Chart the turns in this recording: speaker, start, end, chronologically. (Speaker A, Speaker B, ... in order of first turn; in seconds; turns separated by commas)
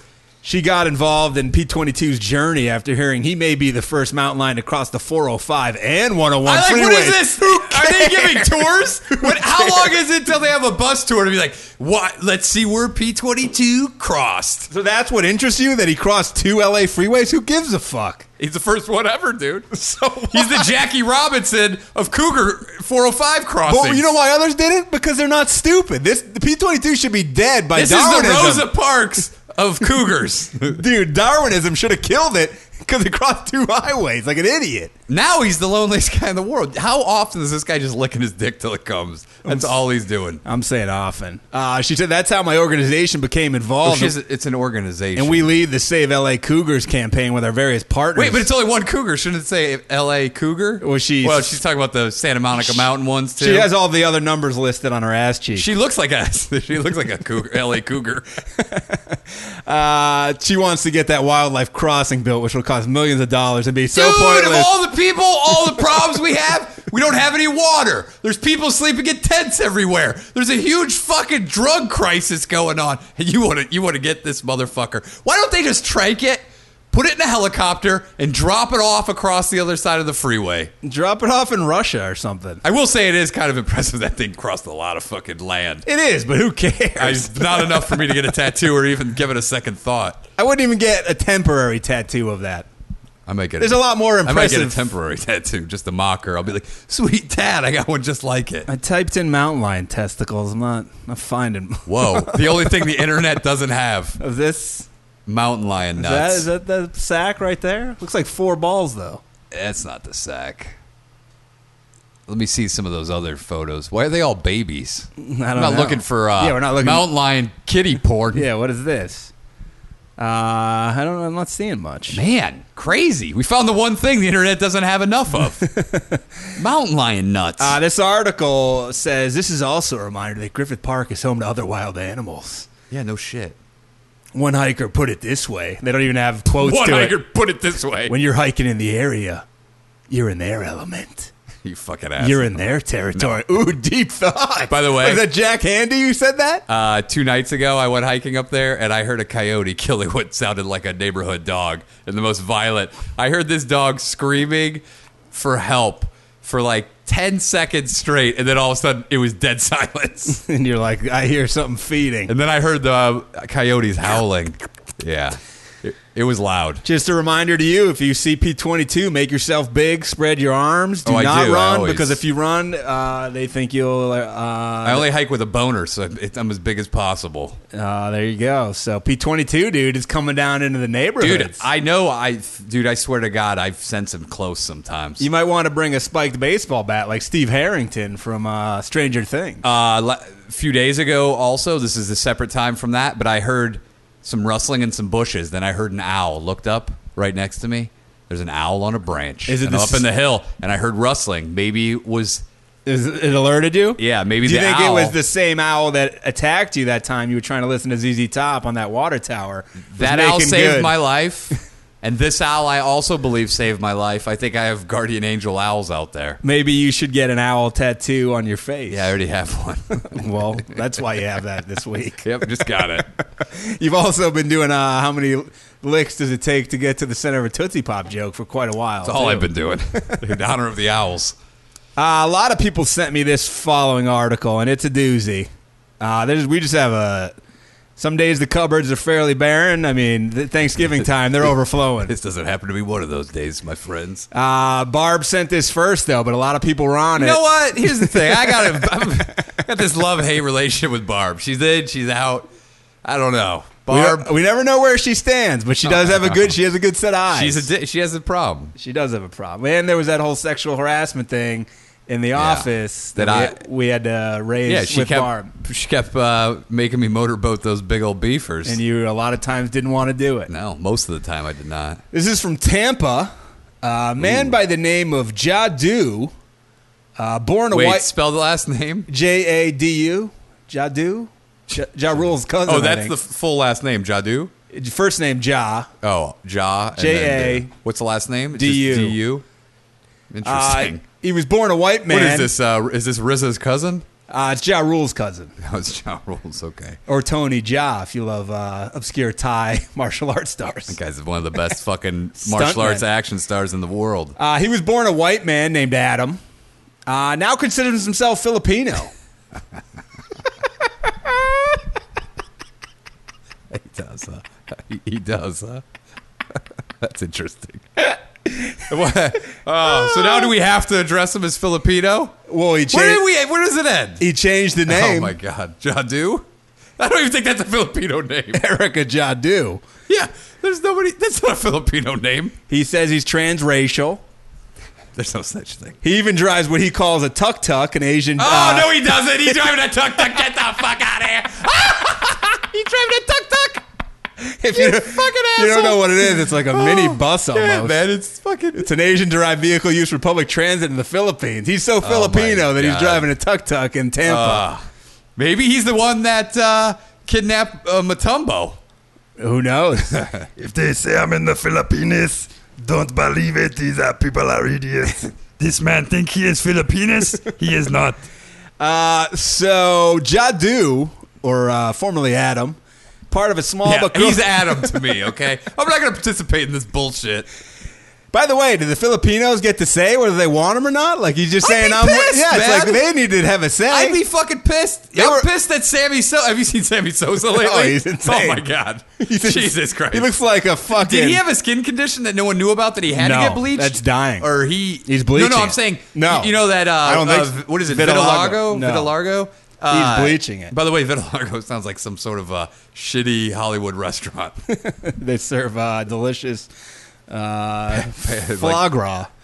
Speaker A: 0.4-10.0, Speaker B: 6.4-14.7, Speaker A: 14.7-18.3, Speaker B: 18.4-19.7, Speaker A: 19.7-20.7, Speaker B: 20.2-24.1, Speaker A: 23.7-28.7, Speaker B: 27.7-30.8, Speaker A: 30.7-34.9, Speaker B: 35.1-40.4, Speaker A: 39.4-39.8, Speaker A: 40.4-44.1, Speaker B: 43.8-45.5, Speaker A: 45.1-48.5, Speaker B: 48.1-53.7, Speaker A: 50.8-51.6, Speaker A: 53.4-55.7, Speaker B: 55.5-58.4, Speaker A: 58.6-64.7, Speaker B: 63.9-80.7, Speaker A: 65.6-66.0, Speaker A: 80.8-82.6, Speaker B: 82.6-85.8, Speaker A: 85.8-88.2, Speaker B: 87.0-90.2, Speaker A: 90.4-92.7, Speaker B: 93.3-98.7, Speaker A: 93.6-94.9, Speaker A: 98.7-103.0, Speaker B: 101.9-104.2, Speaker A: 104.2-104.9, Speaker B: 105.2-106.5, Speaker A: 106.0-109.2, Speaker B: 109.5-110.8, Speaker B: 112.3-118.5, Speaker A: 115.2-117.1, Speaker A: 118.3-119.3, Speaker A: 120.2-122.2, Speaker B: 122.1-125.6, Speaker A: 125.3-126.4, Speaker B: 126.5-127.8, Speaker A: 127.6-132.7, Speaker B: 132.9-133.6, Speaker A: 134.3-137.2, Speaker B: 136.5-138.1, Speaker A: 138.1-139.4, Speaker A: 140.1-141.3, Speaker B: 141.6-143.4, Speaker A: 142.2-146.6, Speaker B: 144.7-145.3, Speaker B: 146.7-160.4, Speaker A: 160.3-162.3, Speaker B: 162.3-166.8, Speaker A: 166.8-175.1, Speaker B: 171.1-172.2, Speaker B: 174.8-177.6, Speaker A: 177.7-181.6, Speaker B: 181.2-185.2, Speaker A: 185.2-189.6, Speaker B: 189.6-202.4, Speaker A: 199.5-200.1, Speaker A: 202.8-210.9, Speaker B: 204.0-205.2, Speaker B: 209.9-216.4, Speaker A: 216.4-219.1, Speaker B: 218.9-220.6, Speaker A: 219.9-222.9, Speaker B: 222.2-223.1, Speaker A: 223.4-230.2, Speaker B: 229.0-231.3, Speaker A: 231.9-237.3, Speaker A: 238.0-242.1, Speaker B: 242.1-244.3, Speaker A: 244.3-249.3, Speaker B: 247.2-252.5, Speaker B: 253.0-254.3, Speaker A: 253.9-257.7, Speaker B: 255.8-256.5, Speaker B: 257.3-258.7, Speaker A: 258.8-265.5, Speaker B: 262.3-263.6, Speaker B: 264.6-268.8, Speaker A: 268.6-270.5, Speaker B: 270.5-272.0, Speaker A: 272.1-276.3, Speaker B: 274.2-274.5, Speaker A: 277.1-278.1, Speaker B: 277.7-279.1, Speaker A: 279.1-283.2, Speaker B: 282.6-284.5, Speaker A: 284.7-285.9, Speaker B: 286.0-289.4, Speaker A: 287.0-287.7, Speaker A: 288.5-289.2, Speaker B: 290.3-291.0, Speaker A: 290.4-292.5, Speaker B: 292.1-294.1, Speaker A: 294.3-295.5, Speaker B: 295.6-297.0, Speaker A: 297.1-301.0, Speaker B: 300.9-304.4, Speaker A: 302.4-303.0, Speaker A: 304.4-306.4, Speaker A: 307.1-309.1, Speaker B: 313.7-315.8, Speaker B: 317.0-318.1, Speaker B: 318.9-322.3, Speaker A: 319.8-320.5, Speaker A: 322.5-323.2, Speaker B: 322.9-324.2, Speaker A: 324.2-325.4, Speaker B: 324.9-326.4, Speaker B: 327.0-328.6, Speaker A: 328.5-329.8, Speaker B: 330.1-332.5, Speaker A: 332.7-334.2, Speaker B: 335.1-336.0, Speaker A: 336.0-339.7, Speaker B: 338.4-343.8, Speaker A: 344.4-348.0, Speaker B: 344.7-348.9, Speaker A: 348.7-354.7, Speaker B: 352.0-353.3, Speaker B: 354.2-354.8, Speaker B: 355.4-358.8, Speaker A: 359.4-360.3, Speaker B: 360.1-360.5, Speaker C: 360.6-365.1, Speaker B: 367.6-368.1, Speaker A: 368.8-372.8, Speaker A: 373.3-375.1, Speaker B: 373.8-377.4, Speaker A: 378.3-384.2, Speaker B: 381.6-383.0, Speaker B: 383.9-390.3, Speaker A: 385.1-385.5, Speaker A: 387.4-388.6, Speaker A: 389.2-391.4, Speaker B: 390.9-404.6, Speaker A: 393.1-394.5, Speaker A: 395.1-399.1, Speaker A: 399.9-400.7, Speaker A: 404.7-406.7, Speaker A: 407.3-409.3, Speaker B: 408.0-408.8